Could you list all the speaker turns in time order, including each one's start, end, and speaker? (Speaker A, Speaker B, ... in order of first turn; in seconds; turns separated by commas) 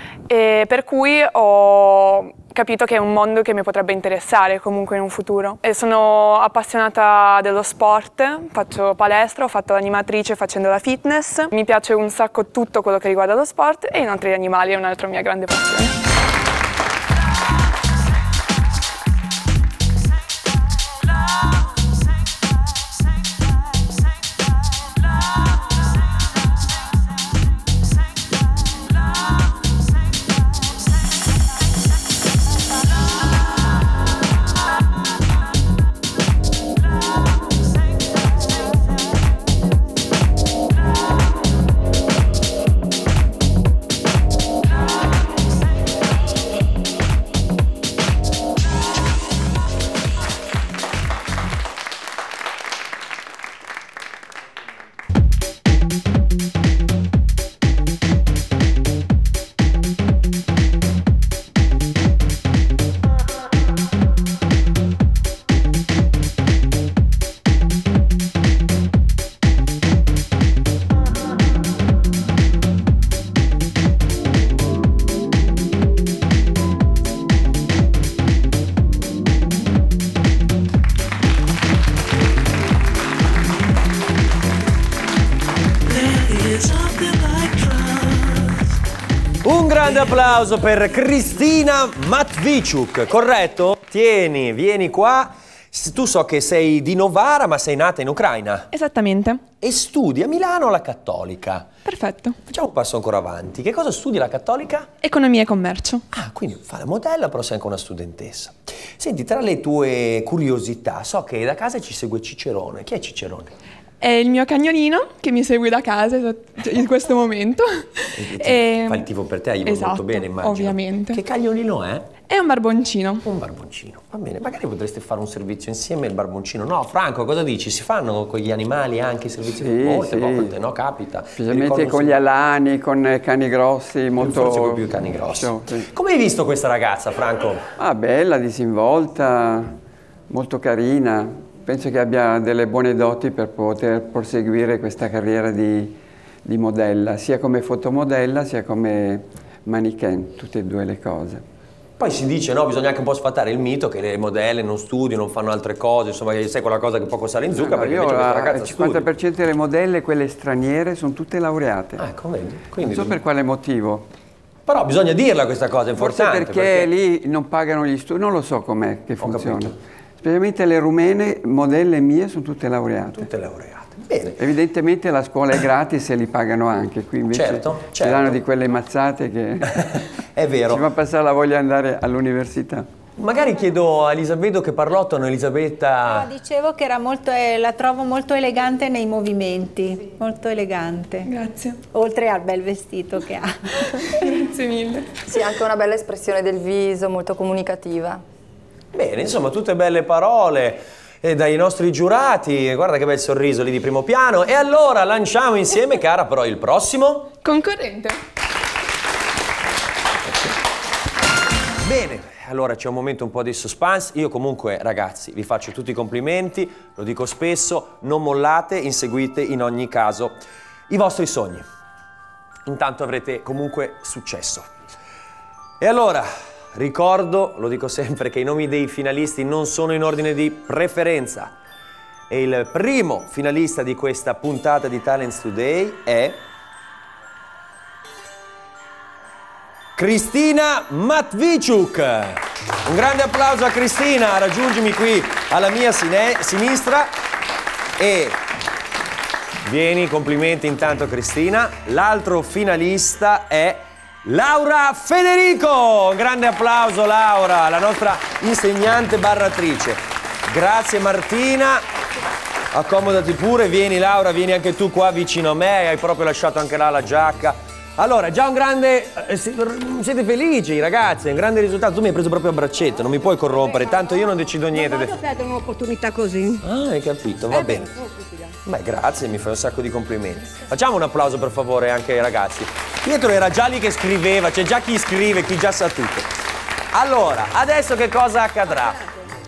Speaker A: 0.3-15.9, Speaker B: 86.0-88.3, Speaker B: 89.4-98.7, Speaker A: 98.7-99.4, Speaker B: 99.6-101.7, Speaker A: 101.8-102.4, Speaker B: 102.5-104.9, Speaker A: 105.0-106.0, Speaker B: 106.1-113.5, Speaker A: 114.0-121.2, Speaker B: 118.2-122.2, Speaker A: 122.3-123.2, Speaker B: 123.2-132.2, Speaker C: 129.4-130.6, Speaker C: 131.4-135.9, Speaker B: 134.2-137.6, Speaker C: 137.8-139.7, Speaker C: 140.3-145.9, Speaker C: 146.4-151.4, Speaker B: 152.0-159.1, Speaker C: 157.5-162.1, Speaker B: 162.0-163.2, Speaker C: 162.8-164.1, Speaker B: 164.7-166.9, Speaker C: 165.9-173.3, Speaker B: 169.2-169.7, Speaker B: 173.1-174.4, Speaker C: 174.3-180.0, Speaker B: 177.3-178.4, Speaker B: 179.7-180.9, Speaker C: 180.7-182.8, Speaker B: 183.2-186.3, Speaker D: 186.1-191.3, Speaker A: 191.2-191.8, Speaker D: 191.9-193.5, Speaker A: 194.1-195.1, Speaker E: 195.2-198.2, Speaker B: 198.9-207.4, Speaker A: 207.4-208.2, Speaker B: 211.8-221.6, Speaker B: 222.7-224.7, Speaker B: 225.8-231.5, Speaker B: 232.3-236.4, Speaker B: 240.0-247.1, Speaker B: 248.0-248.4, Speaker B: 249.6-261.8, Speaker B: 262.7-275.2, Speaker F: 274.7-276.6, Speaker B: 276.6-278.0, Speaker F: 277.5-278.5, Speaker B: 278.6-286.3, Speaker B: 286.9-289.1